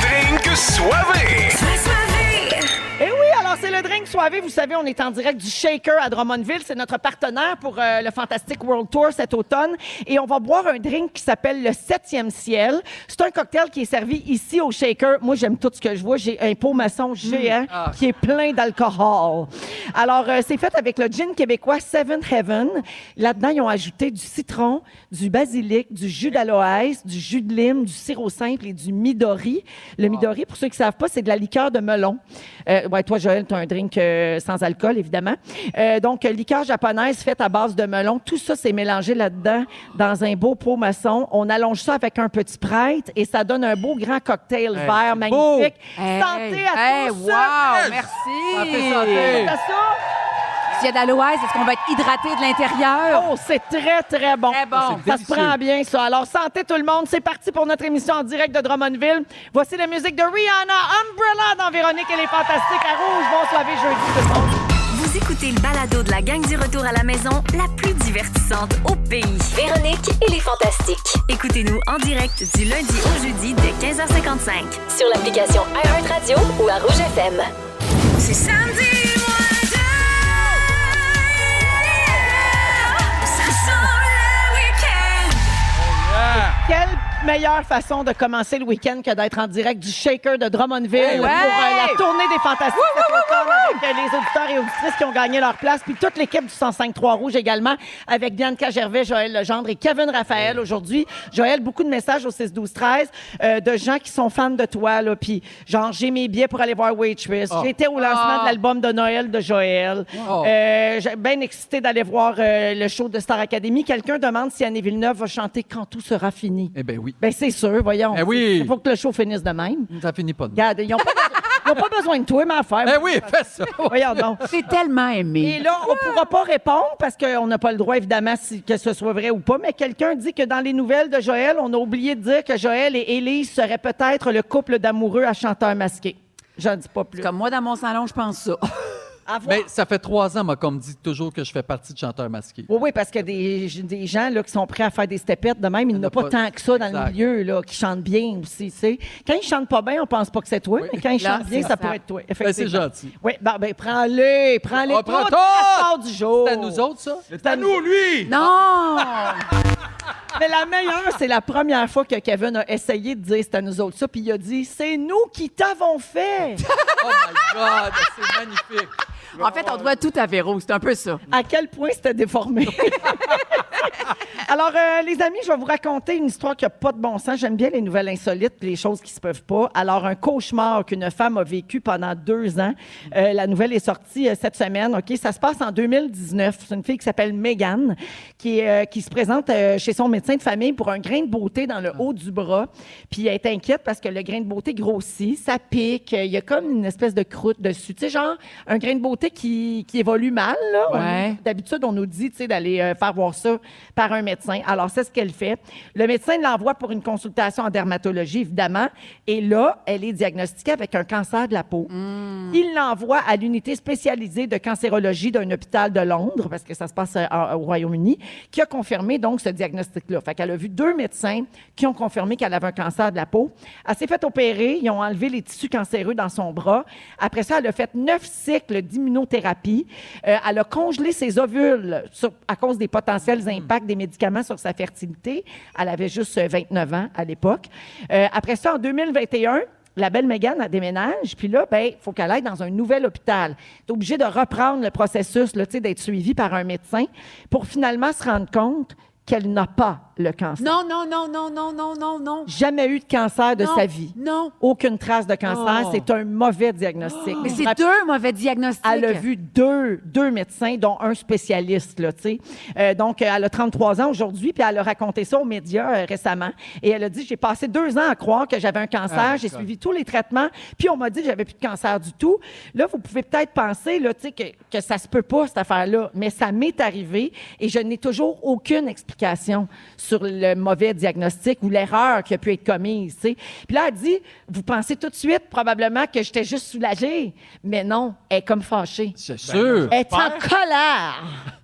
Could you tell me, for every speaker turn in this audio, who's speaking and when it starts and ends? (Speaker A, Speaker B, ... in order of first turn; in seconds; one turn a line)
Speaker A: 1.5-2.7
Speaker B: 3.0-47.6
Speaker C: 17.2-17.5
Speaker D: 17.7-18.0
Speaker D: 44.7-45.7
Speaker C: 46.0-49.5
Speaker E: 47.6-48.1
Speaker D: 48.5-49.6
Speaker B: 49.0-50.0
Speaker C: 50.8-53.3
Speaker B: 53.1-64.6
Speaker C: 54.5-55.1
Speaker D: 54.7-55.6
Speaker A: 64.9-69.5
Speaker F: 69.5-71.2
Speaker A: 71.3-74.8
Speaker F: 74.9-77.5
Speaker A: 78.2-80.0
Speaker A: 83.1-85.4
Speaker E: 85.8-86.6
Speaker B: 86.4-119.9
Speaker D: 91.0-91.6
Speaker C: 91.0-92.0
Speaker C: 92.7-93.8
Speaker C: 108.0-108.5
Speaker D: 110.2-110.5
Speaker D: 116.7-117.2
Speaker D: 118.1-118.7
Speaker D: 119.9-120.6
Speaker B: 120.5-124.4
Speaker D: 122.8-124.6
Speaker C: 124.5-125.6
Speaker B: 125.4-137.3
Speaker C: 137.2-138.9
Speaker B: 139.3-139.6
Speaker D: 139.4-142.7
Speaker B: 142.7-156.8
Speaker D: 145.9-147.2
Speaker D: 150.8-151.7
Speaker C: 151.2-152.0
Speaker D: 152.4-153.1
Speaker D: 154.8-157.2
Speaker E: 157.3-158.3
Speaker B: 157.4-157.8
Speaker C: 158.2-159.4
Speaker B: 160.3-166.6
Speaker D: 166.9-168.9
Speaker C: 169.3-171.2
Speaker E: 169.4-169.9
Speaker B: 171.3-173.9
Speaker B: 174.5-211.9
Speaker C: 200.9-201.4
Speaker C: 211.9-212.6
Speaker B: 212.5-250.7
Speaker C: 250.6-252.5
Speaker B: 252.5-257.8
Speaker C: 253.6-254.5
Speaker C: 255.5-255.9
Speaker D: 257.1-257.6
Speaker C: 257.4-259.2
Speaker B: 258.8-289.1
Speaker D: 269.1-269.7
Speaker D: 289.2-289.9
Speaker E: 289.4-290.4
Speaker B: 289.9-291.4